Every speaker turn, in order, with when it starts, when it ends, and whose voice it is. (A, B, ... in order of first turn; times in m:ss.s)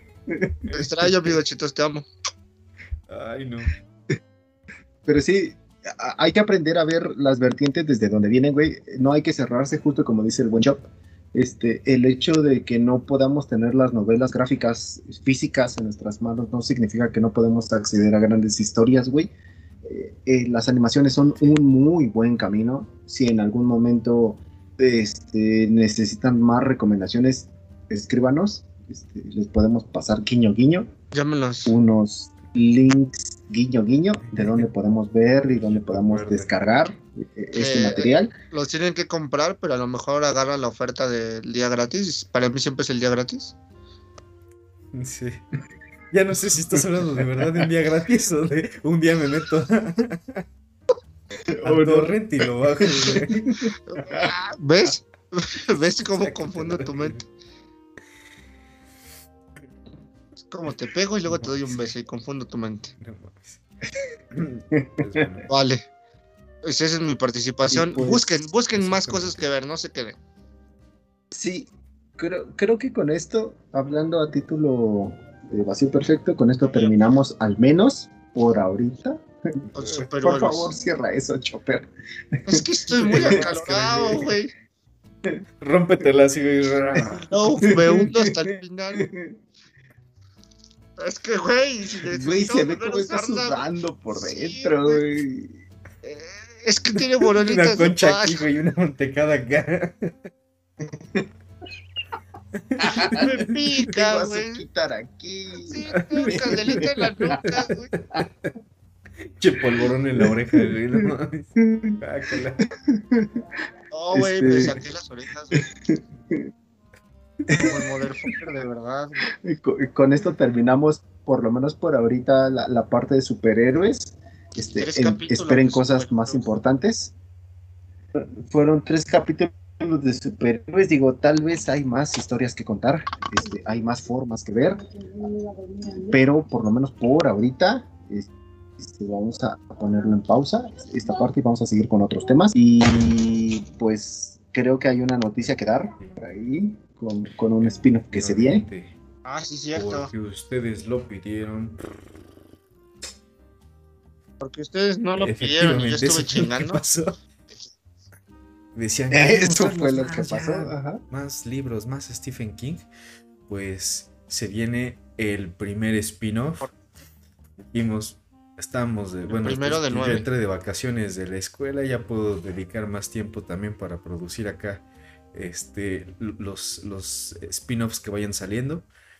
0:00.7-0:01.1 A
0:00.7-0:02.1 B
0:03.1-0:03.7 A
0:05.0-0:10.8 C
0:11.3-0:19.3 C
0:19.8-0:30.9 C
0:31.1-0:31.7 B
0:31.6-0:38.3 C
0:34.2-0:34.7 A
0:35.5-0:36.5 A
0:37.5-0:43.5 B
0:44.9-0:45.4 A
0:46.1-0:50.4 A
0:46.7-0:47.7 C
0:51.5-0:54.3 C
0:51.6-0:53.7 A
0:53.9-0:57.2 B
0:56.0-0:57.2 A
1:00.4-1:02.9 B
1:01.3-1:01.5 A
1:03.0-1:03.6 A
1:04.3-1:05.5 A
1:04.7-1:05.4 C
1:05.5-1:05.8 B
1:06.6-1:10.2 B
1:07.7-1:08.2 C
1:08.7-1:09.5 A
1:11.3-1:21.9 C
1:16.6-1:17.1 B
1:19.7-1:20.7 B
1:22.4-1:24.3 C
1:22.5-1:24.5 B
1:23.0-1:24.2 A
1:25.6-1:27.3 A
1:26.8-1:28.1 C
1:27.0-1:29.1 B
1:28.9-1:29.4 C
1:31.0-1:35.0 B
1:32.1-1:35.6 C
1:36.0-1:38.4 B
1:36.9-1:40.3 A
1:40.8-1:41.3 C
1:42.5-1:43.6 A
1:42.8-1:43.3 C
1:43.1-1:44.6 B
1:43.9-1:47.4 C
1:45.6-1:47.9 B
1:45.9-1:48.5 A
1:49.3-1:52.6 A
1:49.7-1:52.0 C
1:52.7-1:53.5 C
1:53.9-1:55.6 B
1:54.1-1:54.8 C
1:55.5-1:56.5 C
1:57.5-1:57.8 C
1:57.5-1:59.2 B
1:59.3-2:07.1 C
2:04.8-2:06.5 B
2:08.2-2:14.8 C
2:15.8-2:28.6 C
2:27.6-2:29.0 A
2:29.2-2:30.1 B
2:29.7-2:31.8 A
2:34.4-2:36.8 B
2:35.2-2:37.2 A
2:38.7-2:42.8 A
2:39.1-2:41.0 C
2:43.5-2:46.7 A
2:47.7-2:58.9 A
2:49.3-2:50.2 B